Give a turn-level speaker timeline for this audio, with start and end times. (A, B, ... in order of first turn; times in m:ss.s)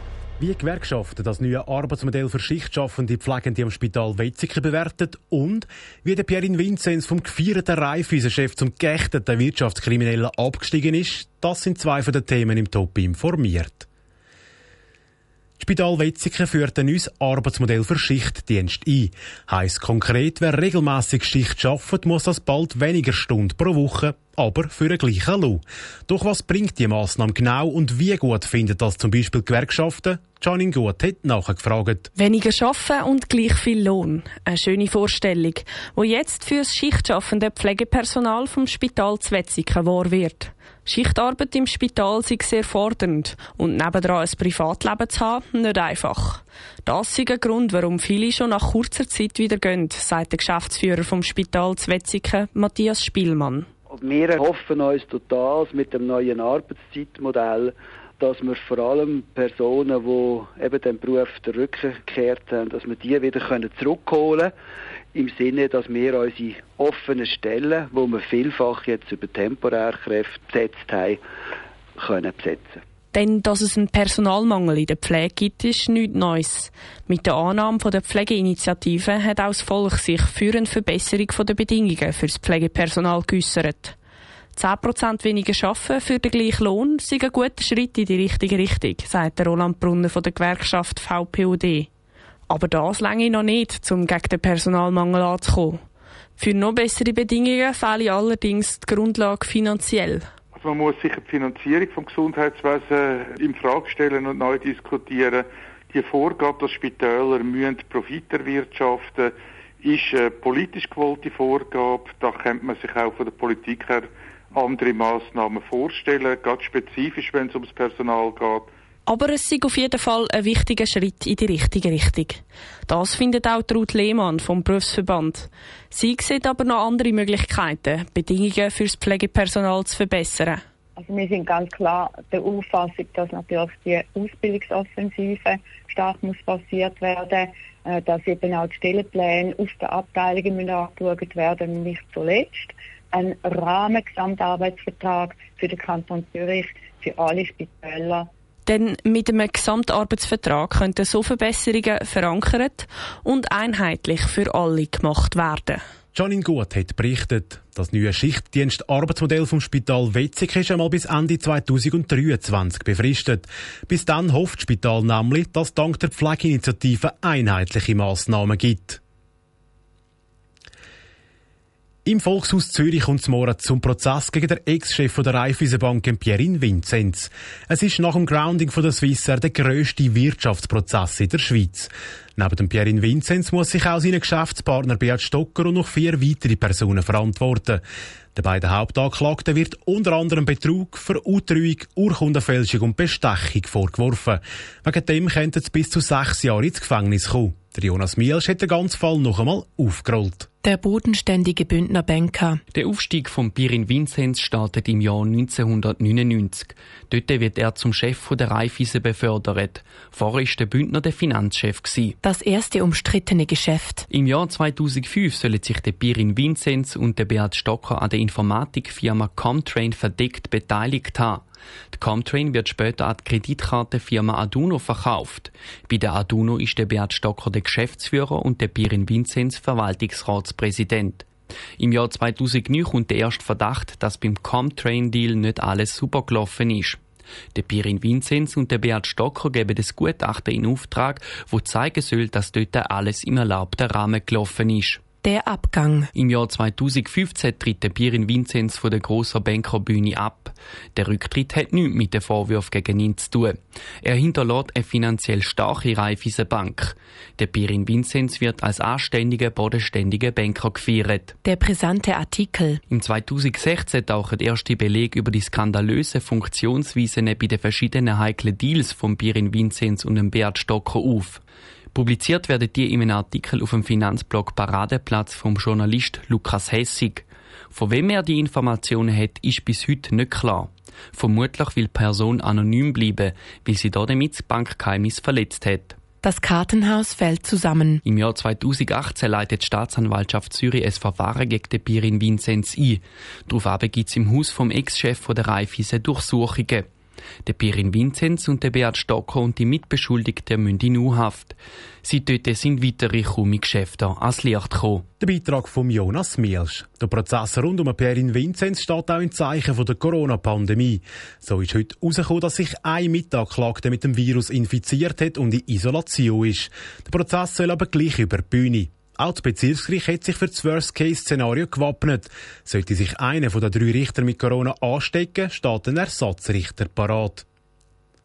0:00.4-0:13.9 A
0:15.6-0:32.1 A
0:32.2-0:53.7 B
0:53.9-1:04.5 C
1:05.1-1:11.2 C
1:12.0-1:12.8 C
1:13.1-1:24.0 B
1:24.6-1:31.9 B
1:32.5-1:35.8 B
1:36.4-1:40.3 B
1:40.5-1:58.7 D
1:59.1-2:10.6 B
2:11.0-2:28.3 E
2:28.7-2:35.8 B
2:36.1-2:49.0 A
2:52.1-3:07.8 A
3:08.4-3:20.5 A
3:20.6-3:22.6 F
3:22.7-3:32.2 G
3:32.2-3:34.0 F
3:34.1-3:41.4 G
3:41.9-3:51.3 G
3:51.8-3:57.0 G
3:57.6-4:05.1 G
4:05.2-4:06.1 F
4:06.1-4:21.4 G
4:21.4-4:22.8 F
4:22.9-4:31.4 G
4:31.9-4:46.0 G
4:46.2-4:48.0 F
4:48.0-4:56.9 G
4:57.4-5:05.1 G
5:05.2-5:27.4 A